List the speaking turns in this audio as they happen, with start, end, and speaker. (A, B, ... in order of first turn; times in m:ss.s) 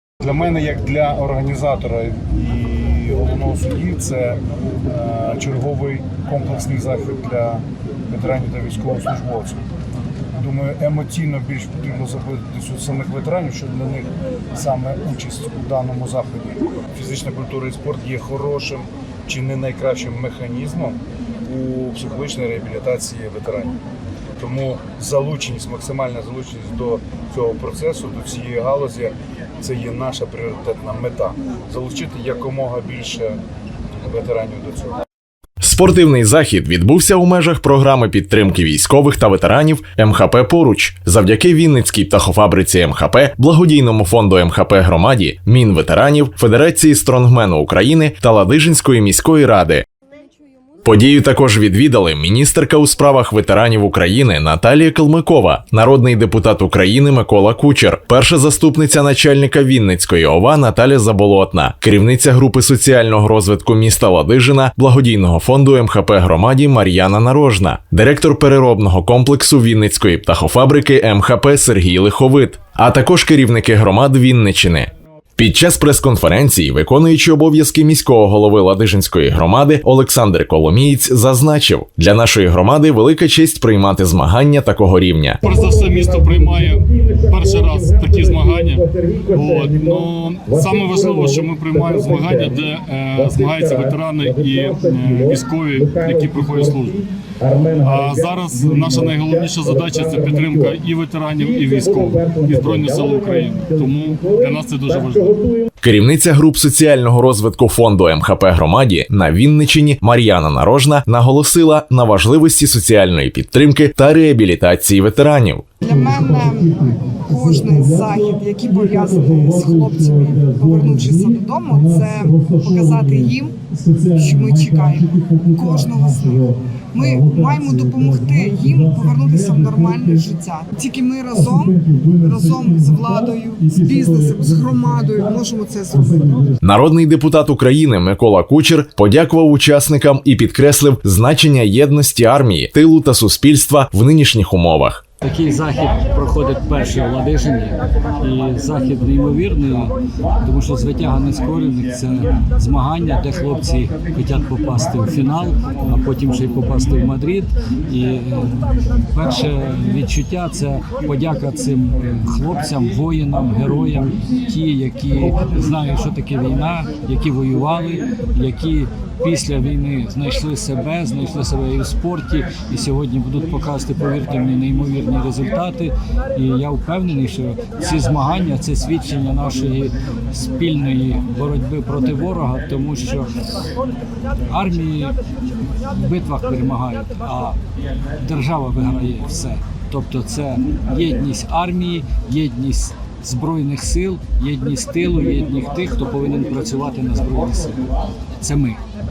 0:00.2-0:09.6 A
0:10.4-0:23.8 A
0:24.4-0:33.4 A
0:34.0-0:35.0 A
0:35.6-0:49.8 B
0:50.8-1:25.4 B
1:25.4-1:37.0 C
1:25.4-1:40.8 A
1:37.8-1:45.4 C
1:41.4-1:45.7 A
1:45.8-1:55.7 B
1:55.8-2:10.3 A
1:55.9-1:56.7 D
1:57.3-2:03.6 D
2:04.2-2:16.3 D
2:11.3-2:16.6 A
2:16.6-2:25.0 B
2:25.2-3:03.7 E
3:04.3-3:05.2 E
3:05.7-3:07.6 E
3:08.2-3:18.8 E